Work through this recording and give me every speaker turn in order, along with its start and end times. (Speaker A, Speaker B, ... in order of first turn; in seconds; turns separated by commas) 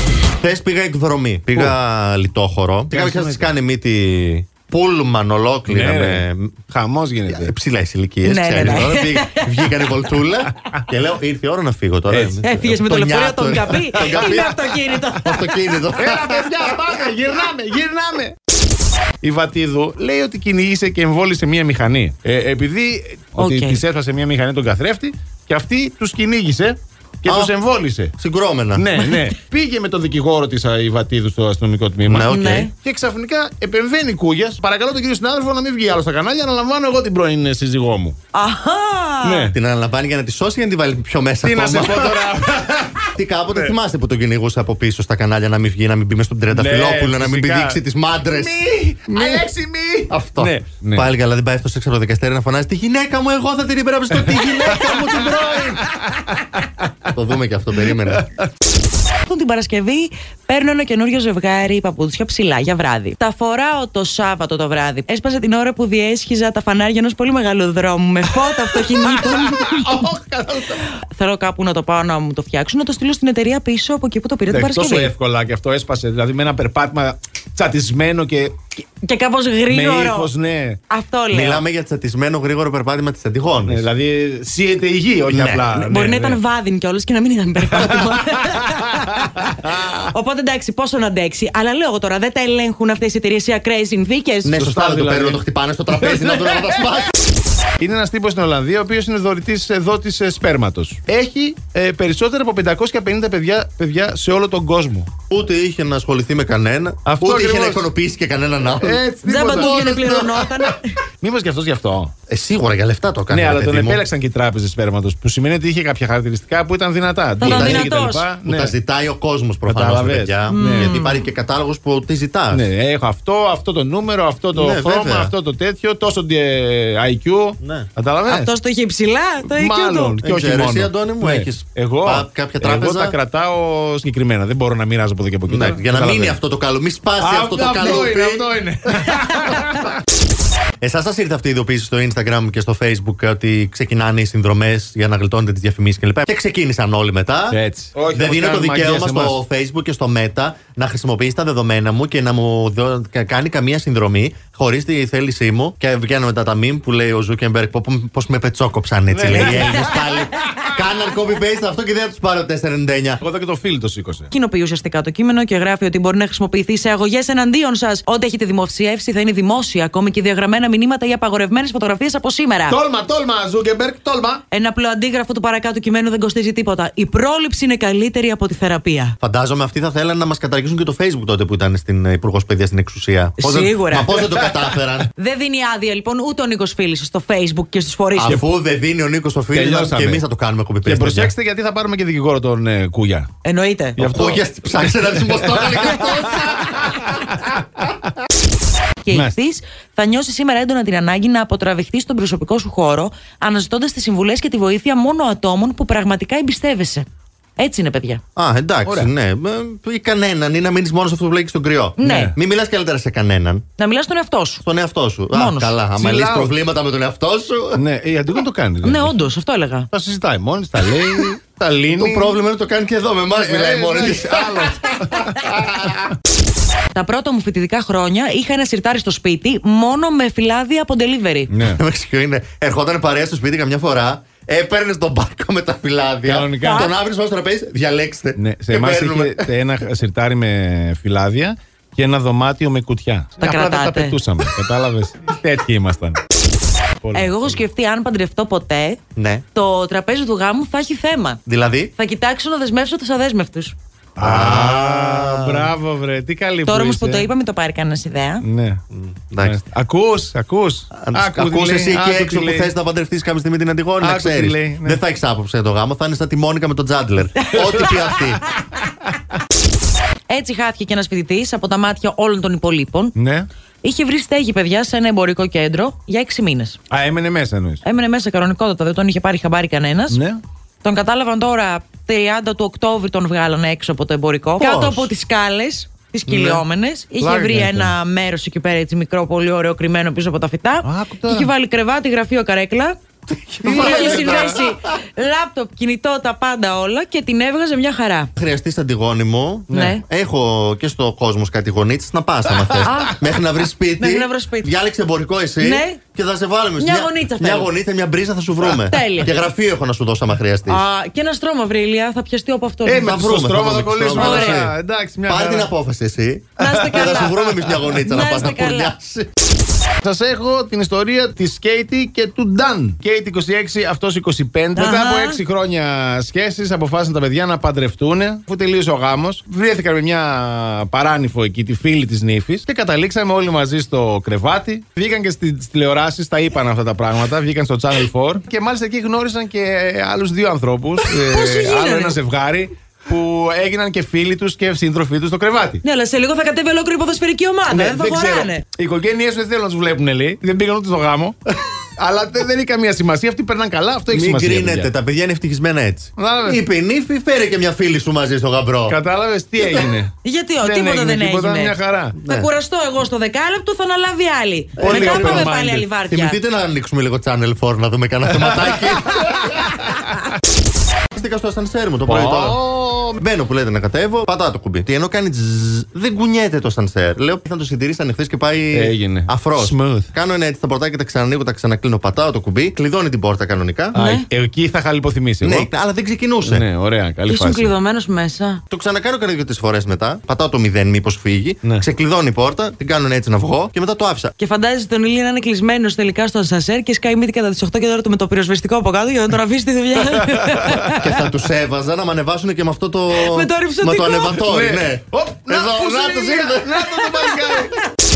Speaker A: 0.4-6.5, Speaker B: 2.9-3.5, Speaker B: 5.7-7.5, Speaker A: 7.3-14.6, Speaker C: 8.2-9.9, Speaker B: 10.6-10.8, Speaker B: 12.1-12.7, Speaker C: 12.4-15.5, Speaker B: 14.0-14.4, Speaker A: 15.2-16.9, Speaker B: 15.9-18.4, Speaker B: 19.2-28.1, Speaker C: 23.4-23.8, Speaker A: 27.2-27.5, Speaker A: 28.2-28.9, Speaker B: 28.8-38.2, Speaker A: 32.0-32.7, Speaker C: 32.3-32.7, Speaker C: 38.3-39.5, Speaker B: 39.2-39.5, Speaker A: 39.5-42.3, Speaker B: 41.4-43.8, Speaker A: 43.1-49.5, Speaker B: 46.5-51.1, Speaker A: 50.1-55.8, Speaker B: 54.1-57.1, Speaker A: 57.1-58.3, Speaker B: 57.8-58.3, Speaker C: 59.2-70.1, Speaker B: 68.3-70.8, Speaker C: 70.7-75.1, Speaker B: 74.5-78.6, Speaker C: 79.0-80.3, Speaker B: 79.7-80.8, Speaker C: 80.9-81.6, Speaker A: 81.3-83.8, Speaker B: 83.7-86.4, Speaker A: 85.3-85.7, Speaker C: 85.7-94.6, Speaker B: 87.7-88.8, Speaker B: 89.5-89.9, Speaker A: 94.4-97.1, Speaker B: 94.6-95.4, Speaker B: 96.0-96.8, Speaker B: 97.8-105.1, Speaker A: 105.3-110.3, Speaker B: 107.1-107.9, Speaker B: 108.8-112.1, Speaker C: 109.2-111.0, Speaker A: 112.3-114.0, Speaker B: 113.3-118.8, Speaker C: 117.4-118.3, Speaker A: 117.4-117.9, Speaker A: 118.4-122.7, Speaker B: 119.7-120.9, Speaker C: 120.5-121.2, Speaker B: 122.5-128.5, Speaker A: 124.6-125.3, Speaker A: 127.6-127.9, Speaker C: 128.2-130.2, Speaker B: 129.4-136.4, Speaker A: 130.2-133.2, Speaker A: 135.5-138.5, Speaker B: 137.2-139.9, Speaker A: 140.8-147.6, Speaker B: 147.5-149.4, Speaker A: 148.1-163.2, Speaker B: 159.1-160.7, Speaker B: 163.2-164.3, Speaker C: 164.3-172.8, Speaker B: 172.7-174.4, Speaker C: 174.5-179.2, Speaker A: 179.2-185.1, Speaker C: 183.4-184.3, Speaker C: 185.2-188.4, Speaker A: 188.2-191.3, Speaker B: 189.5-190.2, Speaker B: 190.8-193.3, Speaker C: 193.4-194.0, Speaker B: 193.9-197.6, Speaker A: 194.0-197.3, Speaker C: 199.0-207.1, Speaker C: 207.6-208.2, Speaker A: 208.3-213.6, Speaker B: 208.8-209.1, Speaker C: 212.0-212.3, Speaker B: 212.0-212.3, Speaker C: 213.8-214.6, Speaker A: 214.6-217.8, Speaker C: 215.3-215.8, Speaker B: 215.9-216.5, Speaker B: 217.8-219.1, Speaker C: 218.8-219.9, Speaker B: 219.9-222.4, Speaker A: 221.9-226.0, Speaker B: 223.3-225.6, Speaker C: 226.9-231.5, Speaker B: 231.5-231.8, Speaker A: 231.6-239.5, Speaker B: 236.2-236.9, Speaker C: 236.6-236.9, Speaker B: 238.3-246.2, Speaker C: 243.4-244.2, Speaker B: 247.0-247.6, Speaker C: 247.1-249.0, Speaker A: 249.2-249.4, Speaker C: 249.5-251.4, Speaker A: 251.4-251.9, Speaker C: 251.9-253.8, Speaker B: 254.2-257.3, Speaker A: 254.2-255.7, Speaker C: 256.6-258.4, Speaker B: 258.4-258.8, Speaker A: 258.9-259.6, Speaker B: 259.4-262.7, Speaker A: 260.9-268.4, Speaker B: 264.0-265.0, Speaker C: 267.5-267.9, Speaker C: 270.3-273.1, Speaker B: 273.1-273.5, Speaker C: 273.8-276.8, Speaker B: 276.9-277.8, Speaker C: 277.8-280.2, Speaker B: 280.1-280.4, Speaker C: 280.8-293.0, Speaker A: 284.6-285.1, Speaker A: 286.3-286.6, Speaker B: 287.2-287.9, Speaker B: 290.8-291.5, Speaker A: 293.3-294.7, Speaker B: 293.6-294.6, Speaker C: 293.6-298.3, Speaker A: 298.4-310.8, Speaker B: 299.7-300.0, Speaker C: 299.7-300.0, Speaker B: 302.7-303.0, Speaker C: 302.8-303.2, Speaker C: 304.0-304.7, Speaker C: 305.6-306.0, Speaker C: 306.8-307.7, Speaker C: 308.7-309.3, Speaker C: 310.7-313.1, Speaker B: 312.8-315.7, Speaker A: 313.0-314.8, Speaker C: 314.1-314.6, Speaker A: 315.2-319.3, Speaker C: 316.6-317.4, Speaker B: 316.6-317.9, Speaker C: 317.9-318.9, Speaker B: 320.0-345.8, Speaker C: 324.8-325.4, Speaker C: 341.1-342.2, Speaker C: 345.8-348.6, Speaker B: 347.7-351.4, Speaker B: 352.0-354.9, Speaker A: 354.1-359.0, Speaker B: 356.2-356.6, Speaker B: 358.9-362.2, Speaker C: 360.2-366.4, Speaker A: 362.1-362.5, Speaker A: 364.8-365.5, Speaker B: 364.8-365.9, Speaker A: 366.1-369.5, Speaker B: 368.4-370.1, Speaker A: 371.1-372.6, Speaker B: 372.1-373.2, Speaker A: 373.2-383.9, Speaker B: 378.7-380.1, Speaker C: 383.9-384.2, Speaker B: 383.9-385.7, Speaker A: 385.4-386.6, Speaker B: 386.4-387.7, Speaker C: 387.3-388.6, Speaker A: 388.7-394.3, Speaker C: 394.4-401.1, Speaker B: 400.3-400.8, Speaker A: 401.0-406.9, Speaker C: 403.1-404.4, Speaker B: 404.3-407.8